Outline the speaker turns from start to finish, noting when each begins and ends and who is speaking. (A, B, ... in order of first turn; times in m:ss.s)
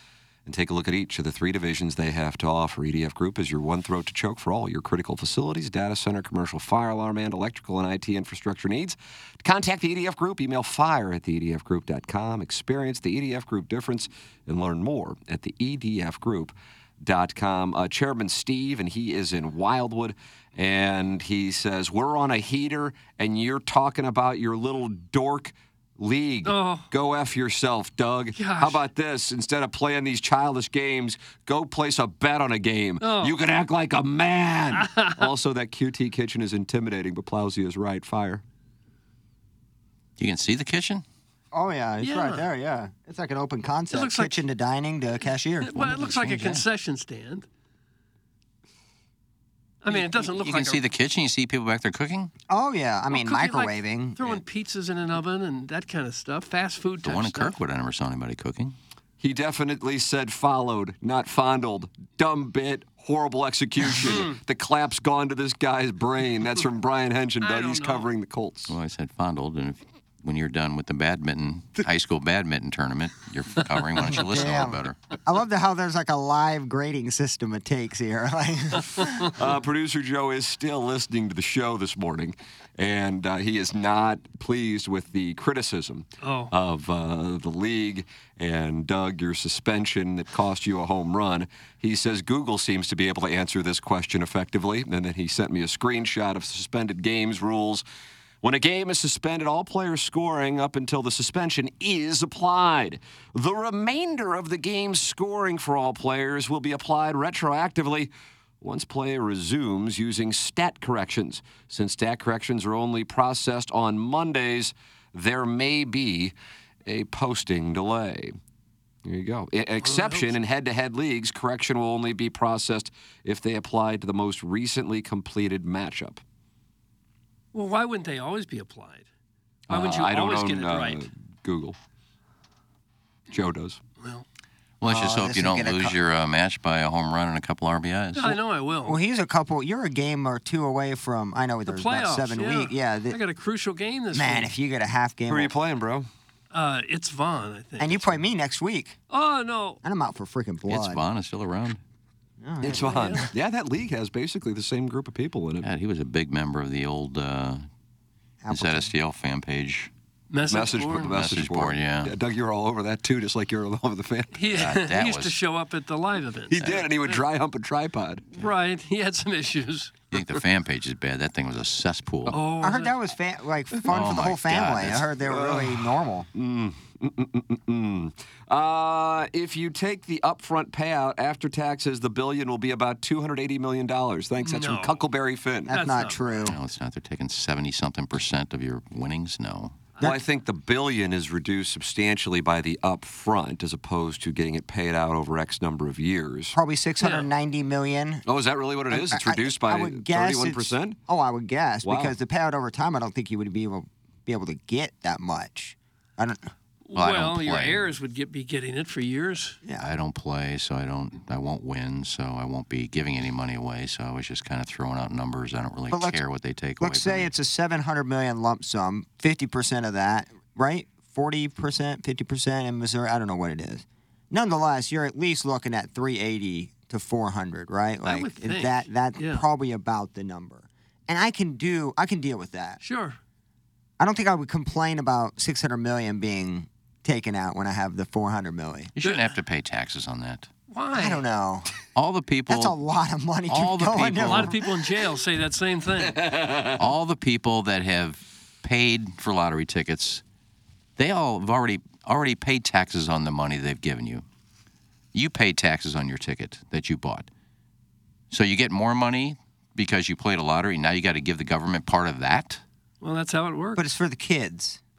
0:00.4-0:38.4 A
0:26.4-0:26.9 B
0:28.4-0:28.8 B
0:33.0-0:33.4 B
0:34.7-0:35.3 B
0:40.2-0:41.0 C
0:41.5-0:45.8 D
0:42.0-0:42.4 B
0:43.9-0:44.4 B
0:45.6-0:47.5 B
0:45.8-0:46.6 C
0:49.8-0:50.8 B
0:49.9-0:52.3 C
0:52.5-0:54.3 D
0:53.1-0:57.6 B
0:57.0-0:58.8 C
0:59.2-1:08.7 A
1:04.0-1:04.4 B
1:07.4-1:08.1 B
1:08.7-1:15.0 C
1:14.1-1:19.3 D
1:19.3-1:37.8 A
1:26.2-1:26.5 B
1:38.4-1:56.3 A
1:56.8-1:58.4 A
1:59.0-2:06.2 A
1:59.8-2:00.3 B
2:07.5-2:09.1 B
2:09.7-2:11.0 B
2:09.7-2:11.8 A
2:13.3-2:13.8 A
2:14.0-2:14.2 B
2:14.8-2:18.4 C
2:14.8-2:16.0 D
2:18.1-2:19.0 B
2:18.8-2:23.2 D
2:21.7-2:24.5 B
2:24.1-2:25.5 D
2:25.3-2:26.1 A
2:26.5-2:28.1 B
2:27.8-2:29.0 D
2:29.1-2:29.8 B
2:29.8-2:31.0 D
2:30.7-2:31.8 C
2:32.4-2:33.3 D
2:32.6-2:35.7 A
2:32.8-2:33.2 B
2:35.6-2:37.6 C
2:38.4-2:38.9 D
2:38.5-2:39.9 C
2:40.3-2:41.2 B
2:40.5-2:44.5 A
2:41.0-2:42.1 C
2:44.3-2:47.2 B
2:44.5-2:45.4 C
2:46.5-2:48.4 A
2:46.6-2:46.8 C
2:48.4-2:49.9 B
2:50.1-2:52.4 C
2:52.3-2:52.9 B
2:52.6-2:56.3 D
2:53.9-2:55.1 C
2:55.2-3:05.7 A
3:04.4-3:05.0 B
3:05.7-3:06.2 B
3:05.7-3:06.6 D
3:06.4-3:09.8 C
3:10.0-3:16.6 A
3:16.5-3:18.2 D
3:17.0-3:17.3 B
3:18.3-3:21.0 A
3:18.9-3:26.5 D
3:21.8-3:22.1 A
3:26.9-3:29.6 B
3:26.9-3:27.9 C
3:29.8-3:37.3 C
3:35.9-3:36.2 D
3:36.8-3:52.8 D
3:48.0-3:49.4 B
3:52.8-3:53.2 B
3:54.0-3:58.9 D
3:59.0-4:00.5 C
3:59.0-3:59.3 B
4:00.7-4:01.2 B
4:00.9-4:01.7 D
4:01.9-4:02.8 C
4:02.5-4:04.6 D
4:03.5-4:04.5 C
4:04.2-4:06.2 B
4:06.2-4:06.8 A
4:06.8-4:10.2 C
4:11.0-4:14.2 C
4:15.1-4:17.3 C
4:18.3-4:22.6 C
4:23.0-4:23.8 B
4:23.8-4:24.8 D